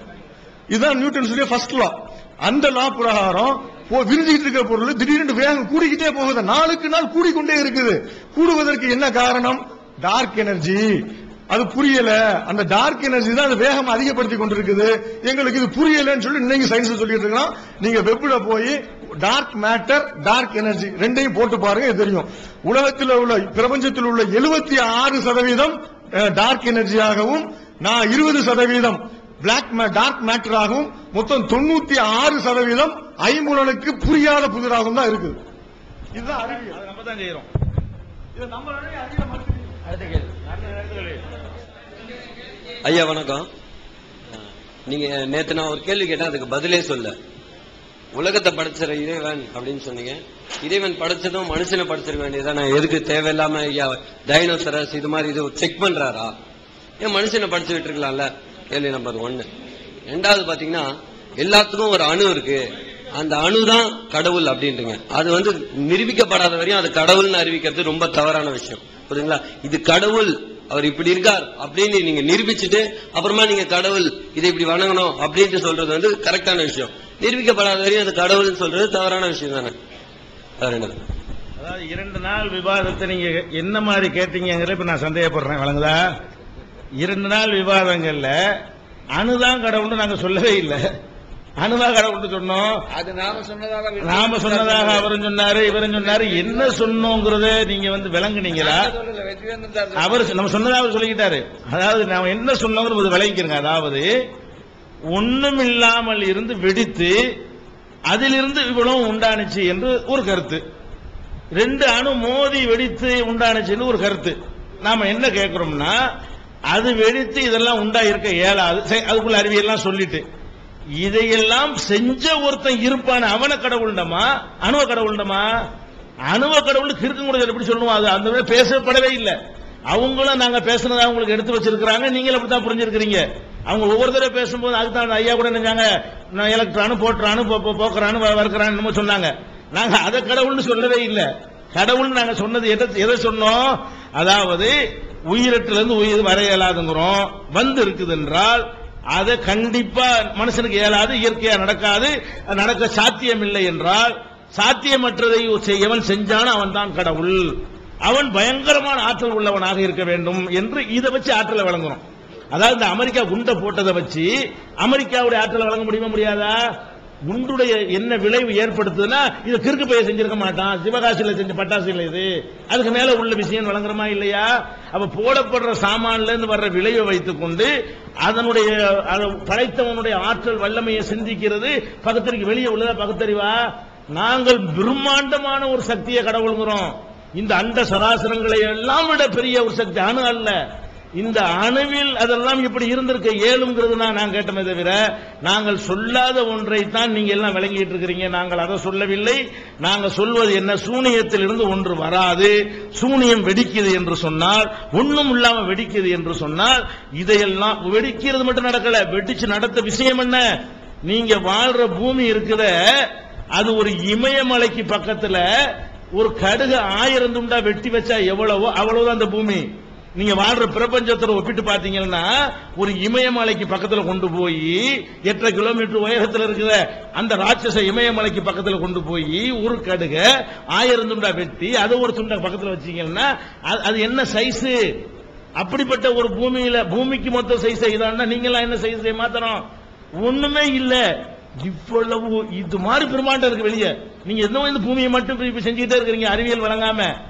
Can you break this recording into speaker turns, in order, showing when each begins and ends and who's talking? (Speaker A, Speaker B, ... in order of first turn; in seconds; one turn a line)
Speaker A: 0.7-35.4
Speaker A: 36.1-36.8
Speaker B: 36.3-37.5
Speaker A: 38.3-39.8
Speaker B: 40.0-41.2
Speaker C: 42.8-43.5
Speaker C: 44.9-47.1
Speaker C: 48.1-56.3
Speaker C: 57.0-59.5
Speaker C: 60.1-60.9
Speaker C: 61.4-62.6
Speaker C: 63.1-79.7
Speaker C: 80.6-81.0
Speaker B: 81.6-86.0
Speaker B: 87.0-88.3
Speaker B: 89.2-90.8
Speaker B: 91.6-92.8
Speaker D: 93.0-95.0
Speaker B: 94.0-98.9
Speaker D: 98.7-100.2
Speaker B: 99.9-104.0
Speaker B: 105.1-107.2
Speaker B: 108.1-110.6
Speaker B: 111.5-116.0
Speaker B: 116.7-120.2
Speaker B: 121.0-125.5
Speaker B: 126.3-129.3
Speaker B: 129.9-144.7
Speaker B: 145.3-157.4
Speaker B: 158.1-162.0
Speaker B: 162.5-164.3
Speaker B: 164.8-166.6
Speaker B: 167.3-177.7
Speaker B: 178.2-183.6
Speaker B: 184.2-190.6
Speaker B: 191.2-210.4
Speaker B: 211.1-215.4
Speaker B: 216.2-219.6
Speaker B: 220.2-230.2
Speaker B: 230.7-234.8
Speaker B: 235.6-239.6
Speaker B: 240.2-241.0
Speaker B: 241.6-247.1